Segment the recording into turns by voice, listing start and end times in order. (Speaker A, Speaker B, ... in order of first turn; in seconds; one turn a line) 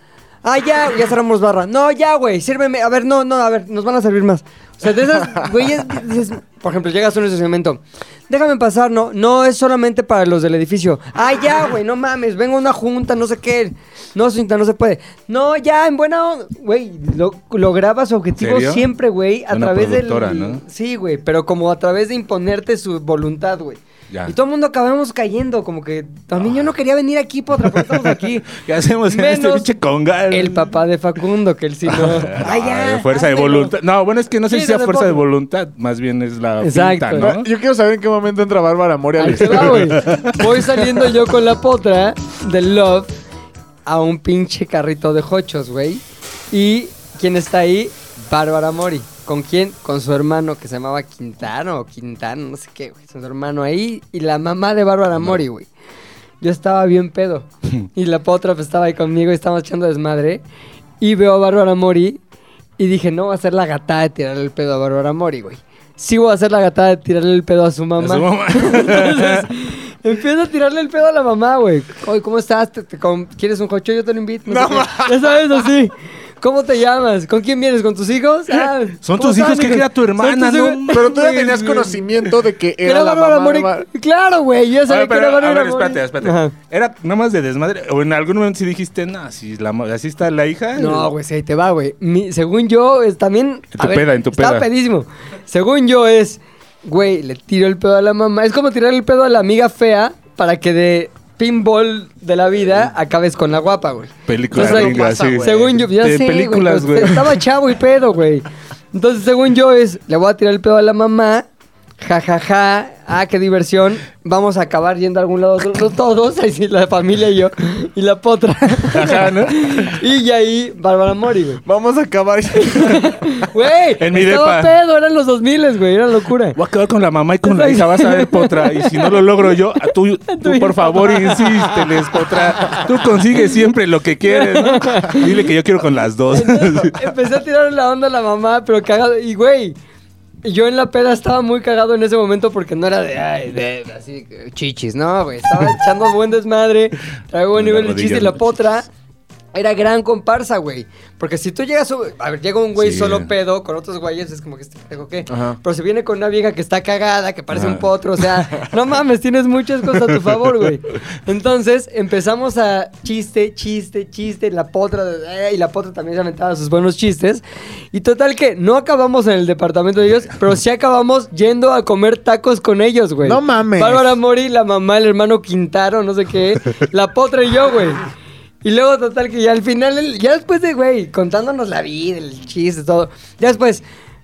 Speaker A: 0.4-28.6
Speaker B: 18.4-18.9
Speaker B: 19.5-20.6
Speaker B: 24.1-24.4
Speaker B: 27.6-30.8
Speaker A: 29.1-29.7
Speaker A: 30.3-33.8
Speaker B: 31.9-37.5
Speaker A: 34.5-35.2
Speaker A: 36.6-37.3
Speaker C: 37.2-40.1
Speaker A: 39.2-43.1
Speaker B: 39.4-40.5
Speaker A: 43.9-55.7
Speaker A: 56.4-60.4
Speaker A: 61.0-62.2
Speaker A: 62.8-81.7
Speaker B: 68.0-69.5
Speaker C: 74.5-75.6
Speaker B: 79.0-81.9
Speaker C: 80.9-83.9
Speaker A: 82.8-86.5
Speaker B: 84.9-91.1
Speaker A: 90.8-111.5
Speaker B: 93.8-94.7
Speaker B: 104.3-107.4
Speaker C: 104.5-105.7
Speaker A: 112.0-121.6
Speaker B: 118.9-120.0
Speaker C: 121.7-123.3
Speaker A: 122.6-126.6
Speaker B: 124.0-124.7
Speaker B: 126.5-137.1
Speaker A: 127.5-133.3
Speaker A: 134.2-135.5
Speaker A: 136.3-139.8
Speaker A: 140.4-148.9
Speaker B: 147.6-148.6
Speaker A: 149.5-178.0
Speaker B: 152.8-153.3
Speaker C: 155.3-155.6
Speaker B: 157.5-158.2
Speaker C: 173.2-174.2
Speaker A: 178.6-183.8